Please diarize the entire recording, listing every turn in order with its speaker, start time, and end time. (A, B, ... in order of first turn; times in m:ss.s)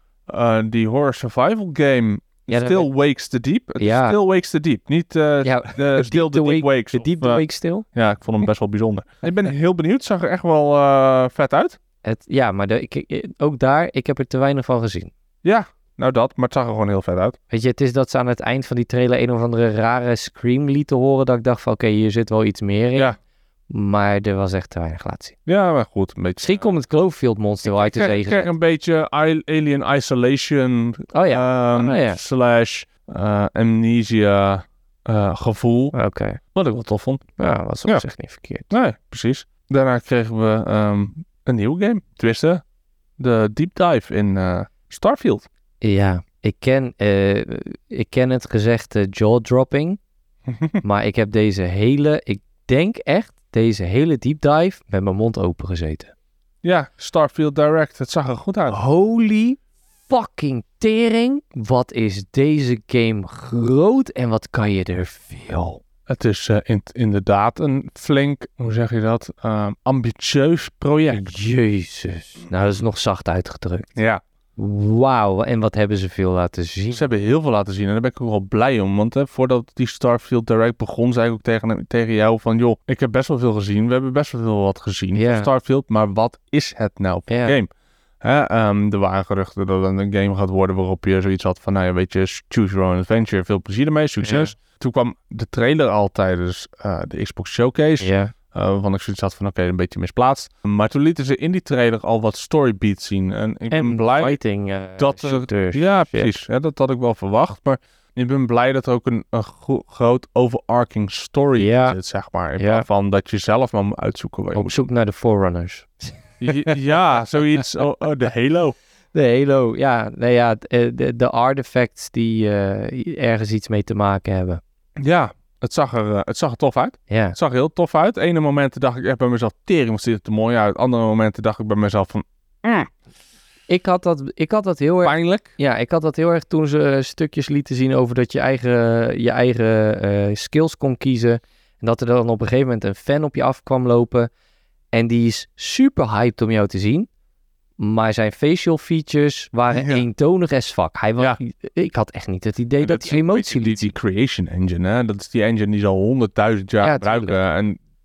0:00.3-0:11.8 A
0:02.5-0:02.9 B
0:03.8-0:04.2 B
0:05.4-0:07.9 B
0:12.0-0:15.1 B
0:15.4-0:17.4 A
0:17.5-0:23.1 B
0:23.7-0:25.4 B
0:25.4-0:26.7 A
0:26.4-0:28.5 B
0:27.6-0:35.9 A
0:31.1-0:32.2 B
0:35.9-0:36.4 B
0:36.5-0:37.2 A
0:37.4-0:38.7 B
0:38.7-0:42.6 A
0:43.2-0:45.4 A
0:45.8-0:50.0 B
0:50.5-0:50.8 A
0:50.8-0:56.1 B
0:56.6-0:58.8 A
0:58.7-1:05.8 B
1:06.1-1:11.3 A
1:11.1-1:13.9 B
1:14.0-1:14.2 A
1:14.6-1:17.0 B
1:16.9-1:27.7 A
1:25.1-1:25.5 B
1:27.3-1:27.5 B
1:28.2-1:44.4 A
1:34.2-1:34.5 B
1:38.0-1:38.3 B
1:43.7-1:46.4 B
1:45.0-1:54.8 A
1:51.6-1:52.0 B
1:52.6-1:52.9 B
1:54.5-1:56.8 B
1:56.4-1:58.7 A
1:59.1-2:04.6 B
2:05.0-2:12.9 A
2:07.1-2:07.4 B
2:13.7-2:24.3 B
2:15.0-2:15.5 A
2:24.9-2:27.1 B
2:27.8-2:33.9 B
2:29.7-2:30.0 A
2:32.8-2:37.8 A
2:36.8-2:37.4 B